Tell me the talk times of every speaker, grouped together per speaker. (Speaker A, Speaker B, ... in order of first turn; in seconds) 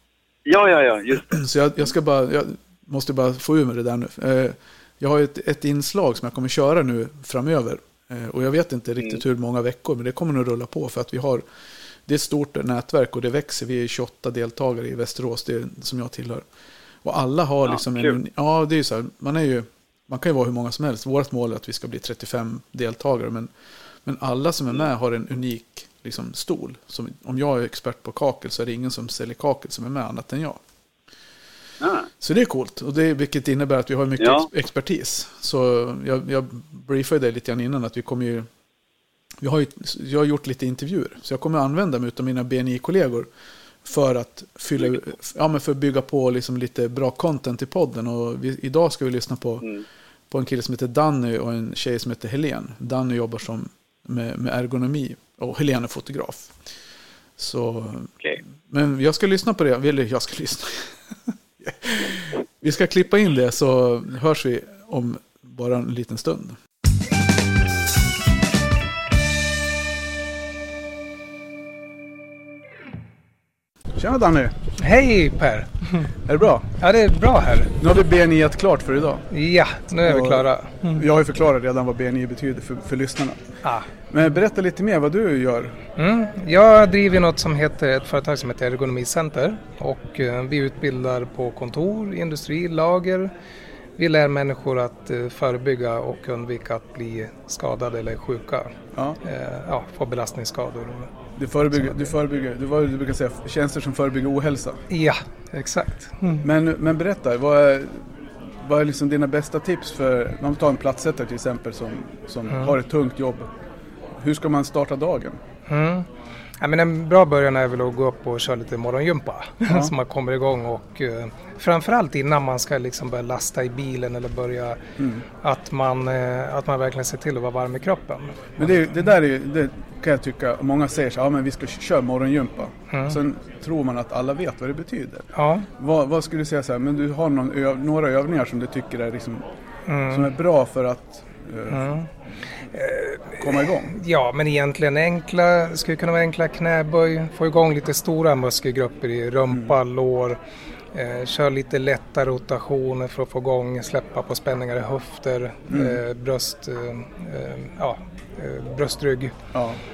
Speaker A: 0.5-1.4, 17.6-18.2, 31.8-32.1, 34.2-34.5, 49.6-49.9
Speaker B: 1.3-11.4, 12.1-16.5, 17.0-23.5, 24.0-30.6, 32.2-38.5, 39.4-43.3, 43.8-49.8, 50.3-56.6, 57.4-66.6
Speaker C: 74.0-74.6, 76.2-76.7, 77.8-79.3, 80.0-83.4, 84.1-85.8, 101.4-104.8, 106.4-113.5, 114.2-115.4, 125.0-125.2, 128.6-139.4, 140.1-141.9, 143.4-143.9, 155.7-156.0, 159.5-159.8
Speaker D: 74.8-76.1, 76.8-77.8, 79.3-81.1, 83.6-83.9, 86.0-93.3, 94.0-98.7, 99.2-101.1, 104.9-106.5, 115.7-116.1, 116.6-124.8, 125.4-128.9, 132.9-133.2, 135.3-135.7, 139.9-140.3, 141.7-142.1, 142.7-150.4, 150.9-159.3